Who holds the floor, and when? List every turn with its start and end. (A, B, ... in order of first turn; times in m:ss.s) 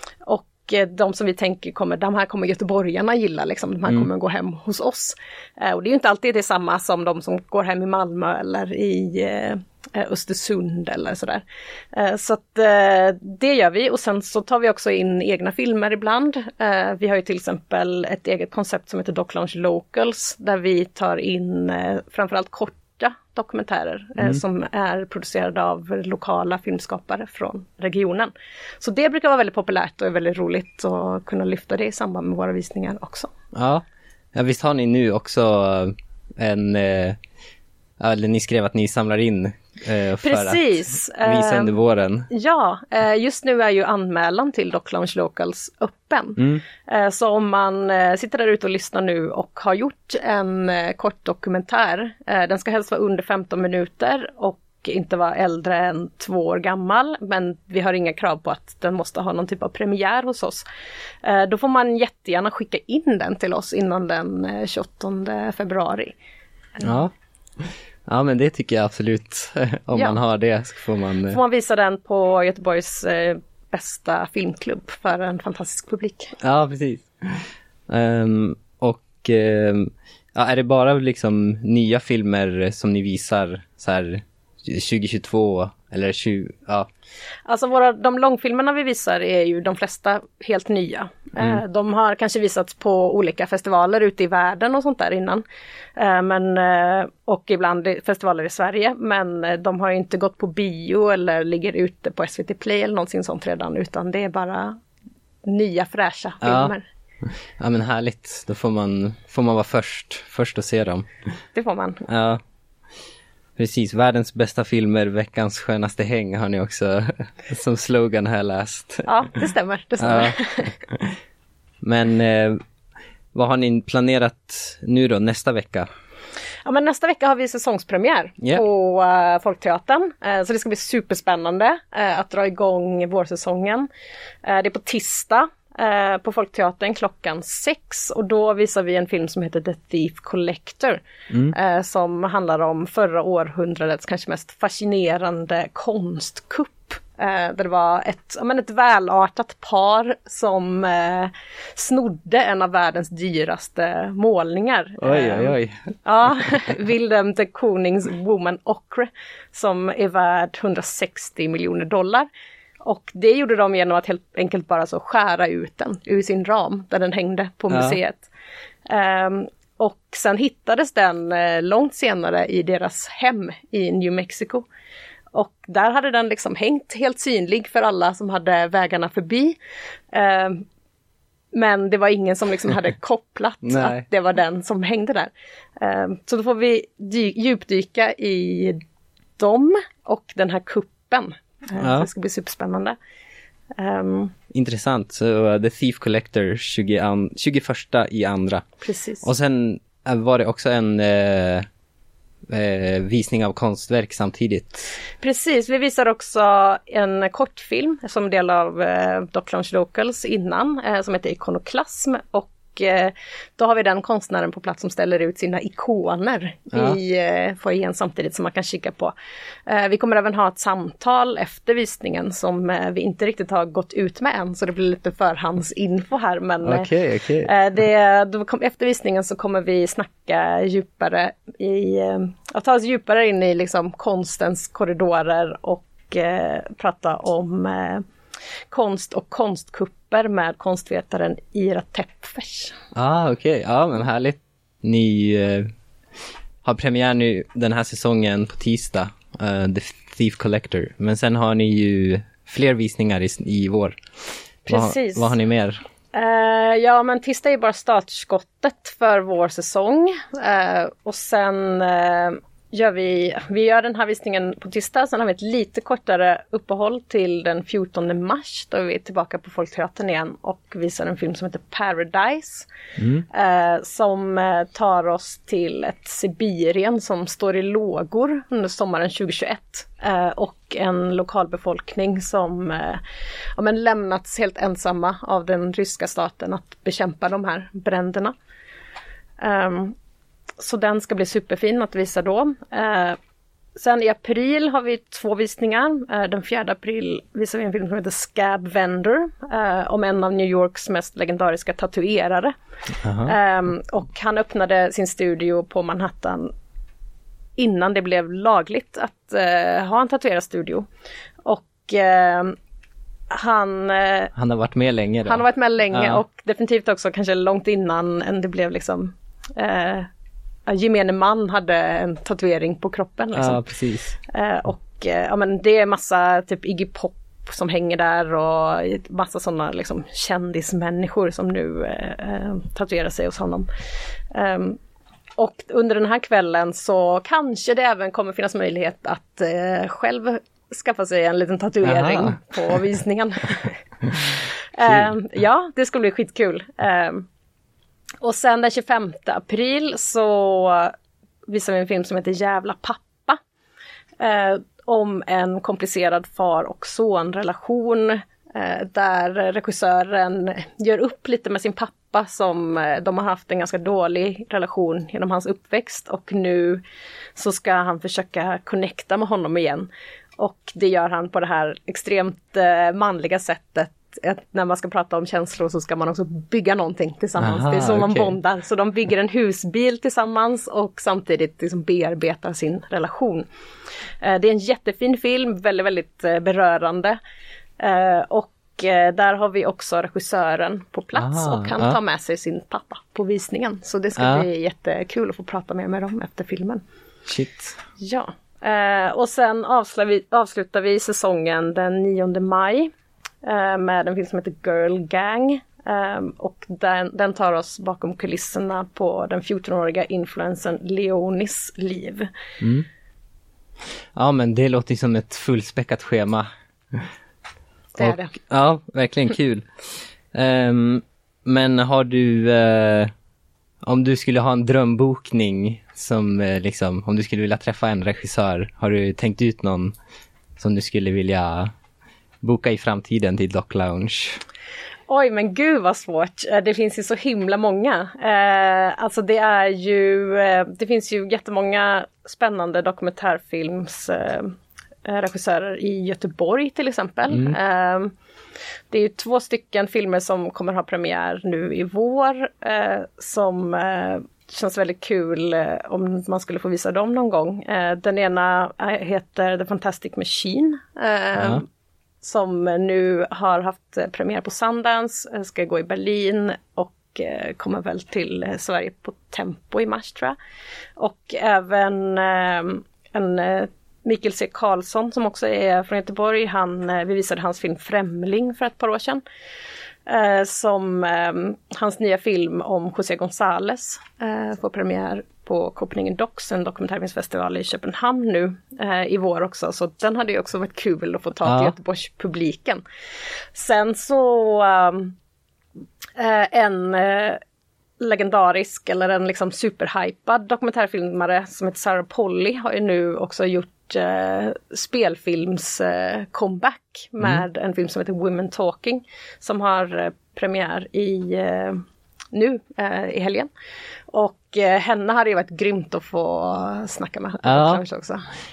0:00.2-0:33.3 A
0:33.5-0:33.8 B
0:34.4-0:37.2 B
0:38.0-0:42.3 B
0:40.2-0:41.8 A
0:42.3-1:00.6 A
0:46.4-0:46.6 B
1:01.2-1:06.2 A
1:06.8-1:07.1 B
1:07.7-1:11.4 B
1:09.9-1:10.2 A
1:11.3-1:16.4 A
1:16.4-1:26.9 B
1:27.5-1:35.4 A
1:31.4-1:31.6 B
1:36.0-1:44.8 A
1:45.5-1:46.9 A
1:46.4-1:46.8 B
1:47.6-1:51.1 B
1:51.5-1:52.0 A
1:52.1-1:52.4 B
1:53.6-1:59.3 B
1:59.1-2:00.7 A
2:00.0-2:01.1 B
2:01.8-2:02.6 B
2:03.4-2:05.9 B
2:06.6-2:13.9 A
2:14.4-2:42.3 A
2:35.0-2:35.8 B
2:42.8-2:48.3 A
2:47.7-2:48.0 B
2:48.9-2:54.6 A
2:55.3-2:59.6 A
3:00.1-3:00.6 A
3:01.5-3:08.8 A
3:03.6-3:04.0 B
3:09.4-3:13.0 A
3:11.8-3:12.1 B
3:13.8-3:14.3 A
3:14.5-3:18.6 B
3:18.8-3:19.3 A
3:19.2-3:21.6 B
3:22.5-3:25.0 B
3:25.2-3:39.1 A
3:36.7-3:37.0 B
3:39.7-3:46.9 A
3:46.6-3:47.5 B
3:47.4-3:58.0 A
3:58.7-4:02.8 A
4:03.0-4:05.7 B
4:06.6-4:14.0 B
4:14.6-4:15.8 B
4:14.7-4:15.3 A
4:16.1-4:32.7 A
4:33.3-4:43.0 A
4:43.6-4:48.3 A
4:49.4-4:50.0 A
4:50.6-4:53.2 A
4:53.8-5:02.5 A
5:03.0-5:03.4 B
5:03.2-5:06.5 A
5:07.6-5:10.9 A
5:11.4-5:12.6 A
5:13.3-5:14.3 A
5:14.4-5:16.2 B
5:15.3-5:20.1 A
5:20.7-5:23.6 A
5:23.4-5:24.2 B
5:24.3-5:33.7 A
5:34.3-5:34.8 A
5:35.4-5:47.3 A
5:41.8-5:42.4 B
5:44.8-5:45.1 B
5:48.2-5:50.9 A
5:51.5-5:53.4 A
5:54.2-6:06.8 A
6:07.4-6:23.5 A
6:17.4-6:18.4 B
6:24.2-6:27.2 A
6:27.8-6:36.8 A
6:31.2-6:32.0 B
6:34.2-6:34.5 B
6:37.3-6:37.8 B
6:38.0-6:42.9 A
6:43.4-6:52.3 A
6:52.6-6:52.9 B
6:54.2-6:57.1 B
6:58.0-6:58.3 A
6:58.0-7:03.1 B
7:03.8-7:09.9 B
7:10.6-7:11.7 B
7:12.4-7:14.4 B
7:15.1-7:24.5 A
7:25.0-7:28.1 A
7:27.3-7:27.6 B
7:28.9-7:41.7 A
7:41.4-7:41.6 B
7:42.2-7:50.4 A
7:51.0-7:59.2 A
8:00.1-8:12.8 A
8:11.4-8:11.8 B
8:13.5-8:15.2 A
8:16.2-8:17.4 A
8:18.0-8:31.8 A
8:32.3-8:33.5 A
8:34.1-8:38.3 A
8:37.4-8:37.8 B